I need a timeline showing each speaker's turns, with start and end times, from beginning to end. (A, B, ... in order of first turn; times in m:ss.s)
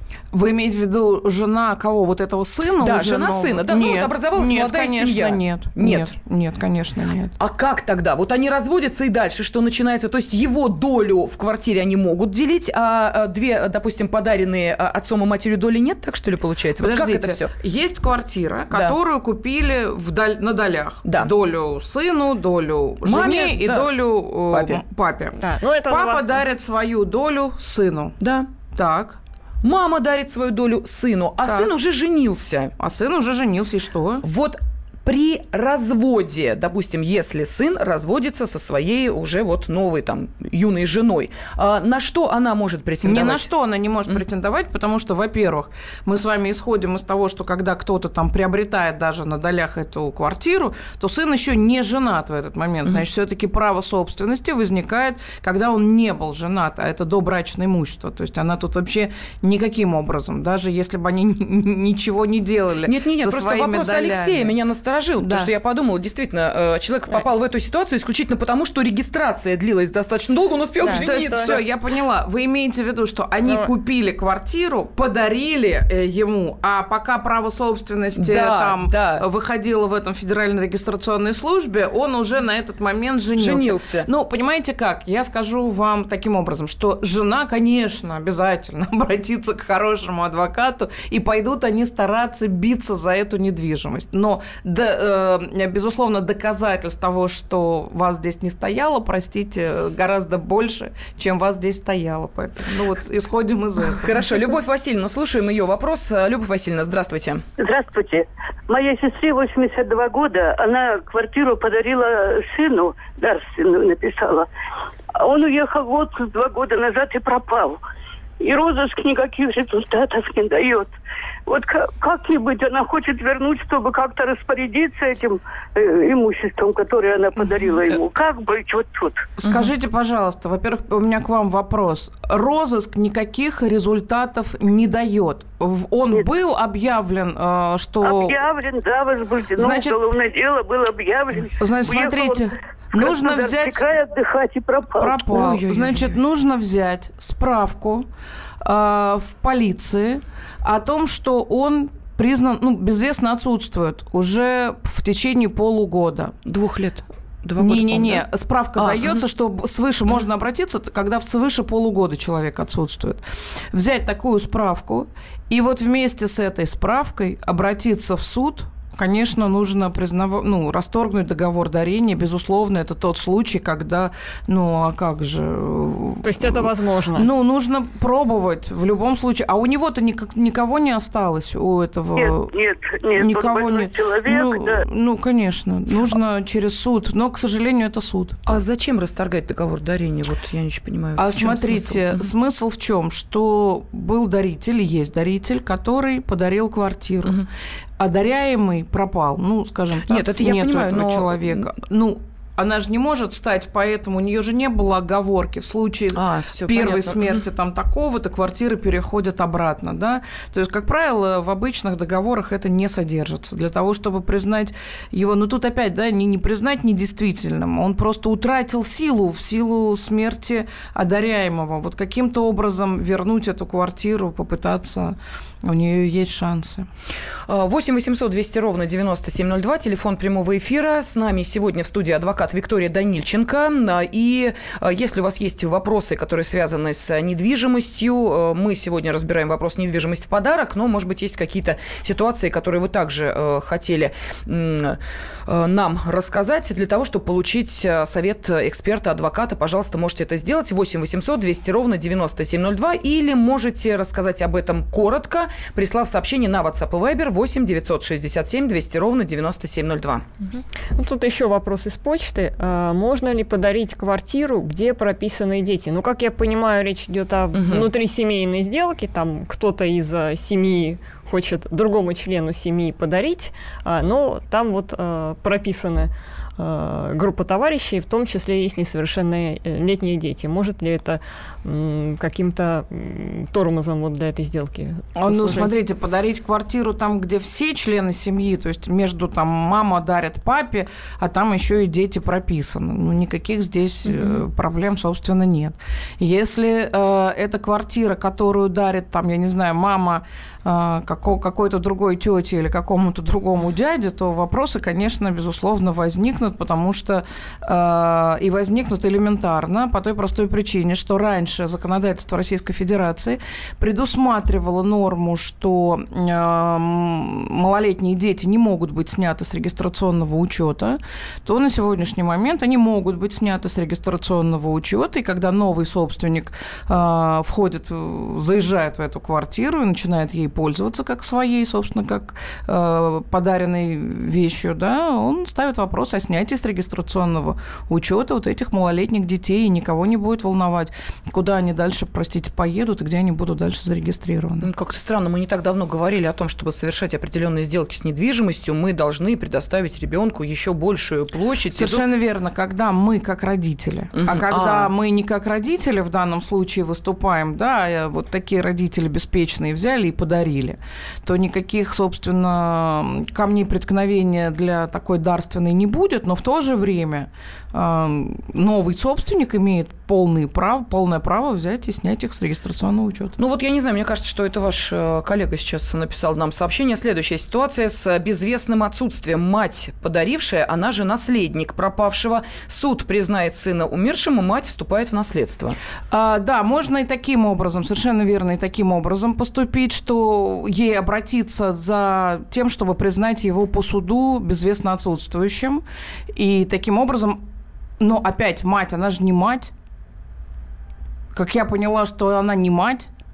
0:00.3-0:07.4 A
0:02.8-0:06.1 B
0:07.4-0:17.5 B
0:16.8-0:28.2 A
0:18.7-0:19.0 B
0:21.0-0:21.3 B
0:23.0-0:24.0 B
0:24.5-0:24.8 B
0:25.4-0:26.2 C
0:28.2-0:28.5 B
0:28.7-0:29.2 A
0:29.6-0:32.7 B
0:31.4-0:31.7 A
0:32.8-0:34.2 A
0:34.2-0:43.5 B
0:43.0-1:04.5 A
1:02.8-1:11.6 B
1:05.2-1:05.5 A
1:10.9-1:11.5 C
1:10.9-1:44.1 A
1:18.2-1:19.2 B
1:23.4-1:24.1 B
1:43.9-1:47.4 B
1:47.6-1:54.5 D
1:55.2-1:57.8 D
1:58.4-2:00.9 D
2:01.5-2:09.2 D
2:09.4-2:18.4 A
2:09.4-2:09.7 B
2:18.0-2:25.3 D
2:19.6-2:20.0 A
2:21.6-2:23.8 A
2:25.0-2:28.0 A
2:25.3-2:26.1 B
2:28.6-2:36.3 A
2:36.4-2:39.2 B
2:37.6-3:02.5 A
2:56.2-2:57.3 C
3:02.2-3:04.8 D
3:03.2-3:08.4 A
3:08.5-3:12.2 B
3:11.2-3:17.4 A
3:18.0-3:46.9 A
3:20.0-3:21.7 B
3:26.2-3:27.4 B
3:47.5-4:20.3 B
4:20.5-4:45.8 C
4:27.5-4:27.9 B
4:45.2-5:44.7 A
5:44.6-5:52.0 B
5:51.8-6:13.4 A
5:54.1-5:54.9 B
6:13.4-6:25.8 B
6:26.1-6:35.8 A
6:36.3-6:37.4 A
6:38.0-6:39.7 A
6:41.3-6:43.1 A